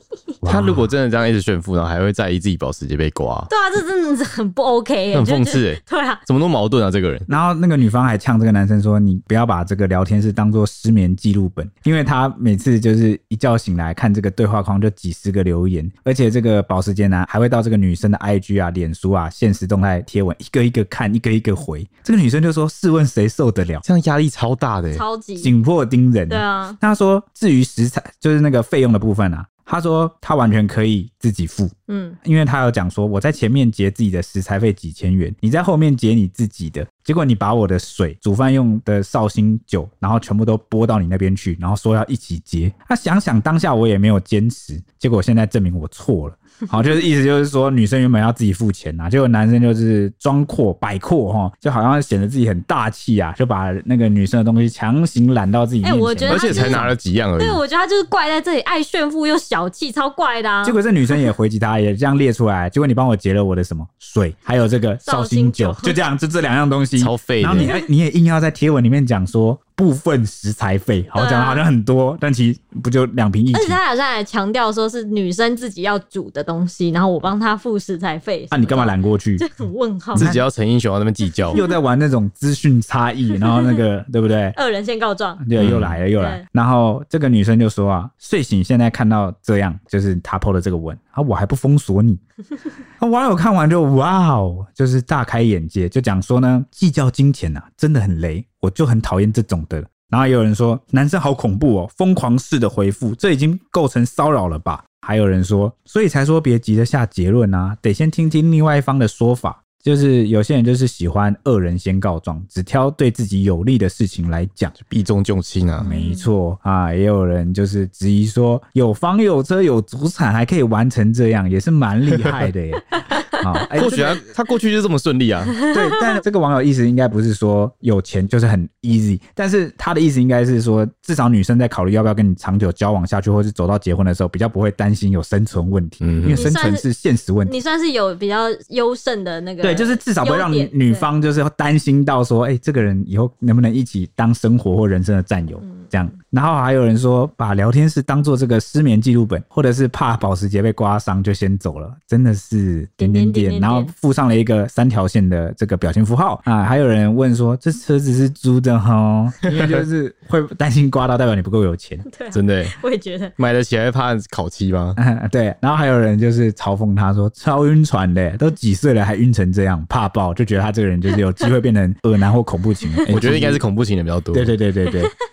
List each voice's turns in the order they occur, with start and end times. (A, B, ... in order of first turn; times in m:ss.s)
0:00.4-0:00.9 A
0:00.4-0:03.5 B
0:03.5-0:06.2 C
0:05.1-0:07.3 B
0:07.3-0:23.8 A
0:23.8-0:25.0 B
0:24.9-0:25.5 C
0:25.4-0:56.9 A
0:26.3-0:26.8 C
0:31.9-0:32.2 C
0:55.8-1:00.8 C
0:56.3-0:57.6 B
1:00.6-1:13.8 A
1:05.0-1:06.0 C
1:07.0-1:07.7 B
1:07.6-1:07.8 C
1:11.1-1:11.6 C
1:13.5-1:20.3 C
1:18.5-1:19.4 A
1:20.1-1:20.4 A
1:20.1-1:21.6 B
1:21.5-1:21.8 C
1:21.5-1:24.6 A
1:23.5-1:23.7 C
1:24.5-1:25.4 C
1:25.4-1:32.2 A
1:25.6-1:26.0 B
1:26.2-1:26.4 C
1:33.0-1:54.7 A
1:54.8-1:55.9 B
1:55.8-2:04.2 A
1:55.8-1:56.2 C
2:03.7-2:05.6 B
2:05.7-2:17.5 A
2:16.0-2:16.4 B
2:16.3-2:16.8 C
2:17.4-2:21.1 C
2:19.6-2:42.0 A
2:25.6-2:25.9 C
2:33.0-2:33.9 C
2:39.5-2:39.8 B
2:42.0-2:43.3 C
2:42.3-2:42.8 B
2:43.4-2:45.0 B
2:45.0-2:53.6 A
2:52.8-2:53.1 C
2:53.1-2:54.5 B
2:54.3-2:55.1 A